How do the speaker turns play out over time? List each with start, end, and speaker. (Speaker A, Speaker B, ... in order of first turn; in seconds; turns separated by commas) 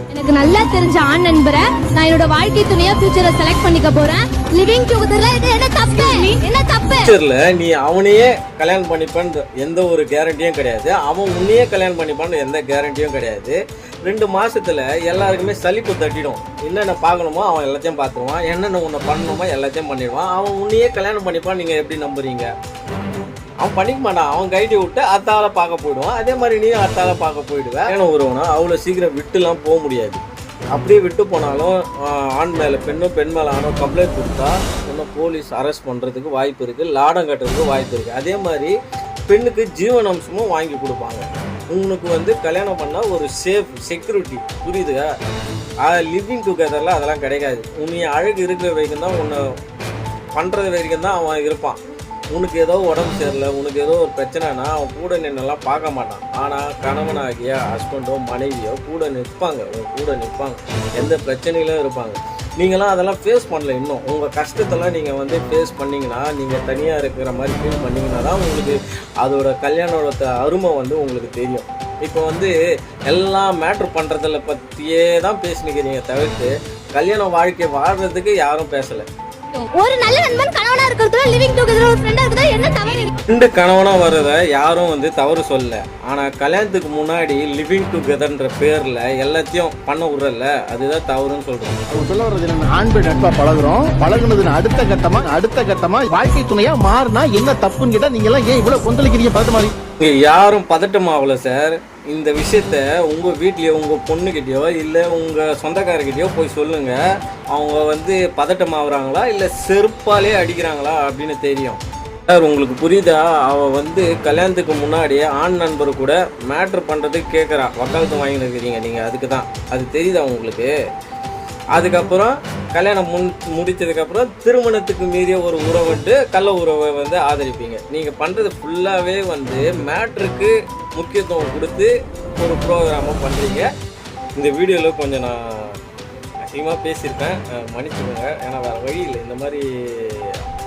Speaker A: 0.1-7.1, Speaker B: 6.9-22.5, Speaker B: 23.6-30.2, Speaker B: 30.7-38.7, Speaker B: 39.3-45.1, Speaker B: 45.8-49.4, Speaker B: 50.4-51.8, Speaker B: 52.3-72.5, Speaker B: 73.1-79.1, Speaker A: 79.5-83.1, Speaker B: 83.3-91.8, Speaker C: 91.9-99.7, Speaker B: 100.0-107.0, Speaker B: 107.5-120.7, Speaker B: 121.7-133.7, Speaker B: 134.3-135.8, Speaker B: 136.4-140.4